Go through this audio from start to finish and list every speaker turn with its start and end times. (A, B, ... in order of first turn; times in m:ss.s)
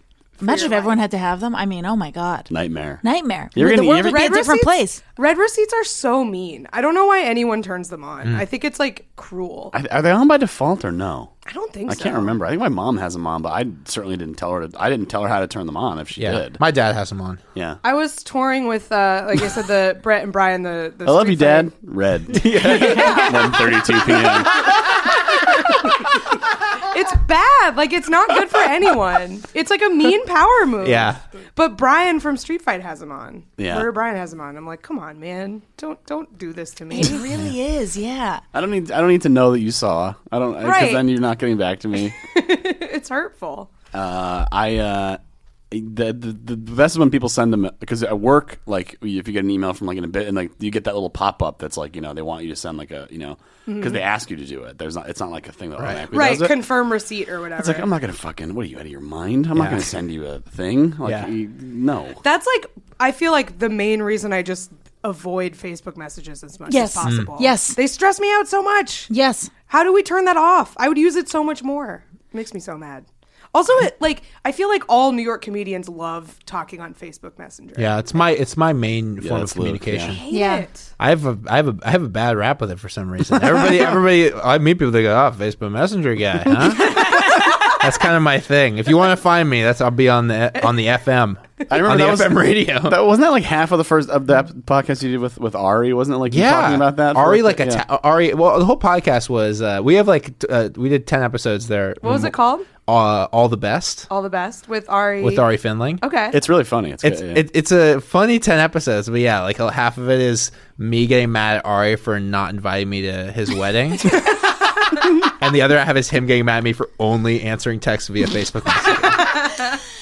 0:00.4-0:01.0 A
0:00.4-0:02.5 B
0:02.5-0:03.0 C
0:03.0-0:05.0 B
0:03.5-0:04.3 C
0:04.0-0:09.7 A
0:09.7-0:11.3 C
0:11.4-0:12.4 A
0:11.9-0:16.6 C
0:16.2-0:17.4 D
0:17.8-0:21.7 A
0:21.0-0:25.0 C
0:22.3-0:23.8 D
0:22.9-0:23.3 A
0:24.7-0:25.3 D
0:25.8-0:26.1 A
0:26.7-0:37.3 A
0:30.8-0:31.2 D
0:33.6-0:33.9 C
0:36.9-0:38.4 B
0:38.5-0:42.2 C
0:40.6-0:41.1 A
0:42.1-0:43.7 A
0:43.9-0:45.2 C
0:45.7-0:56.6 C
0:53.7-0:54.0 A
0:55.8-0:56.0 D
0:56.1-0:57.9 A
0:57.6-1:02.2 C
0:59.5-0:59.9 D
1:01.0-1:01.3 D
1:02.2-1:09.1 A
1:06.7-1:07.8 B
1:07.0-1:07.3 D
1:09.1-1:09.5 B
1:09.7-1:18.0 A
1:17.8-1:20.2 D
1:19.2-1:20.2 C
1:20.1-1:20.9 A
1:20.3-1:20.7 B
1:21.0-1:33.0 D
1:23.4-1:23.9 C
1:26.8-1:27.5 B
1:31.7-1:37.8 C
1:36.3-1:44.1 D
1:42.0-1:42.7 A
1:44.1-1:45.5 A
1:45.2-1:46.0 D
1:46.0-1:46.4 A
1:46.3-1:47.4 C
1:47.0-1:59.4 D